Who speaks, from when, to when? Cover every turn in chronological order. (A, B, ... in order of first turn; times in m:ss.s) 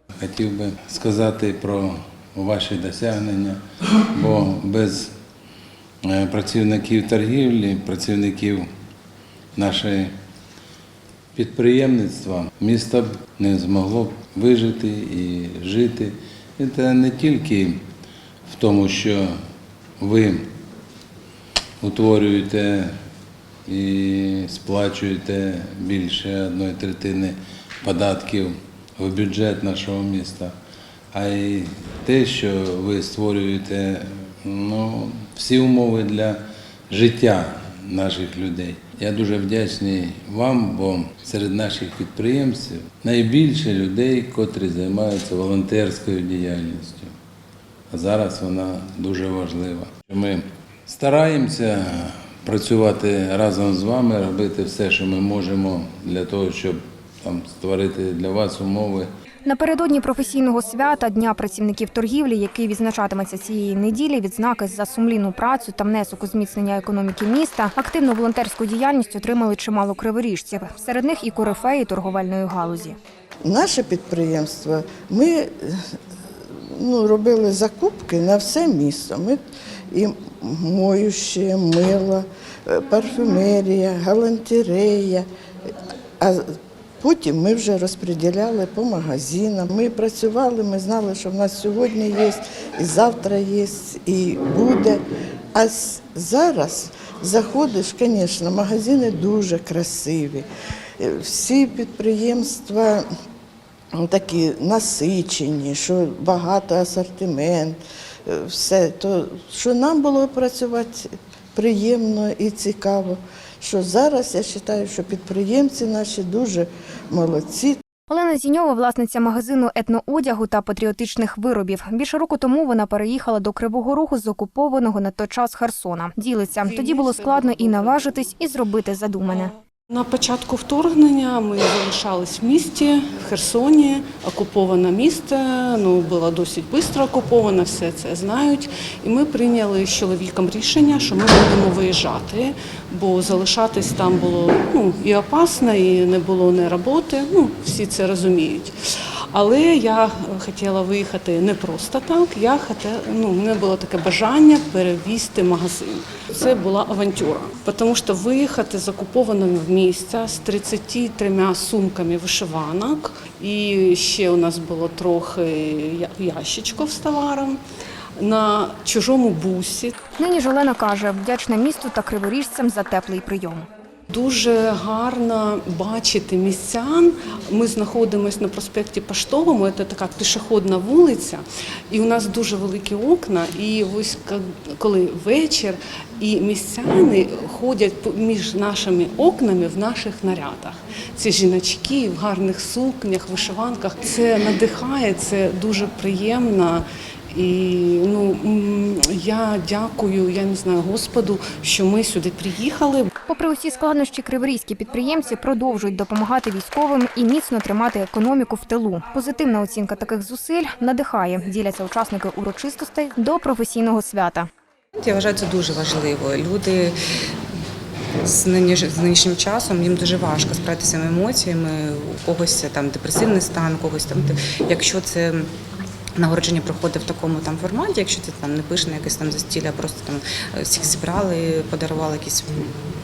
0:00.2-0:03.6 A
0:04.1-0:05.1 A
0:06.0-0:08.7 A
0:09.6-0:10.1 A
0:11.4-0:17.8 A
0:18.5-0:19.3 A
0:20.0-0:20.4 A
0:21.8-0:22.9 A
0:23.7-0:30.5 A
0:31.1-0:47.1 A
0:47.9-0:59.1 A
0:59.5-1:13.0 B
1:13.4-1:15.8 C
1:16.7-1:19.4 C
1:19.9-1:25.3 C
1:26.2-1:26.5 C
1:27.0-1:35.0 C
1:35.5-1:40.5 C
1:41.0-1:43.1 C
1:44.0-1:57.8 C
1:58.1-2:09.5 B
2:06.6-2:08.1 D
2:09.9-2:28.7 D
2:29.3-2:47.6 D
2:48.2-2:50.0 D
2:50.2-2:53.7 B
2:54.1-3:23.1 D
3:23.3-3:34.5 B
3:35.0-3:37.0 E
3:38.2-3:45.5 E
3:46.2-3:52.7 E